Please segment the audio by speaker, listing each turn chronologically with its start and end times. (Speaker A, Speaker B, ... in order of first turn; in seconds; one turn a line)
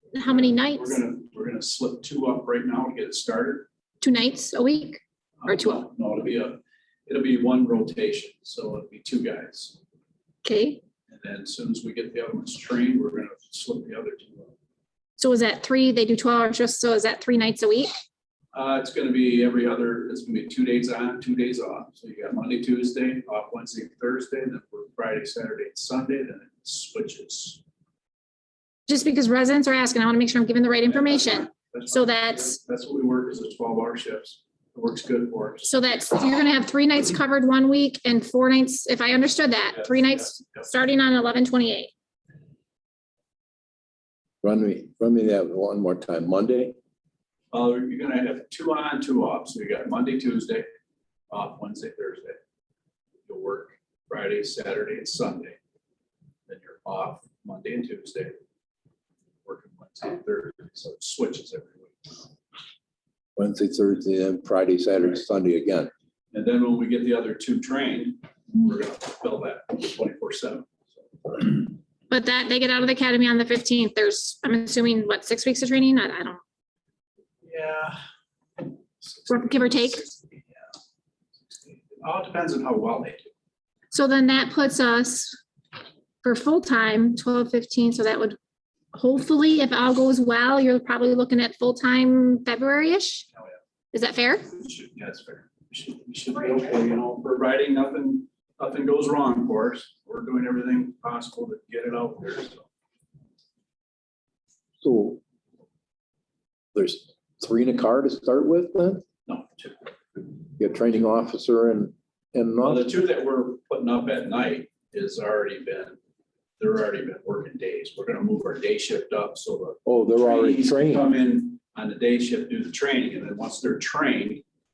Speaker A: 0.1-1.0
Speaker B: 0.3-3.7
Speaker A: 4.0-5.8
Speaker B: 5.4-9.8
Speaker A: 10.4-10.8
Speaker B: 11.1-14.5
Speaker A: 15.2-17.9
Speaker B: 18.5-27.6
Speaker A: 28.9-32.6
Speaker B: 30.9-35.8
Speaker A: 35.6-41.9
Speaker B: 39.8-40.7
Speaker C: 44.4-46.8
Speaker B: 47.5-50.7
Speaker B: 51.3-52.4
Speaker B: 53.3-55.6
Speaker B: 56.5-58.4
Speaker B: 59.5-62.2
Speaker C: 63.4-65.9
Speaker B: 66.3-71.7
Speaker A: 72.1-76.4
Speaker B: 77.4-78.0
Speaker B: 79.0-80.7
Speaker A: 79.3-80.1
Speaker B: 81.7-83.3
Speaker A: 83.9-85.4
Speaker A: 86.2-88.4
Speaker A: 88.9-93.3
Speaker A: 93.9-94.5
Speaker B: 94.5-102.7
Speaker C: 104.8-105.2
Speaker C: 106.7-109.0
Speaker B: 109.3-109.9
Speaker C: 110.6-112.9
Speaker B: 112.6-116.0
Speaker B: 116.6-124.4
Speaker C: 119.9-121.1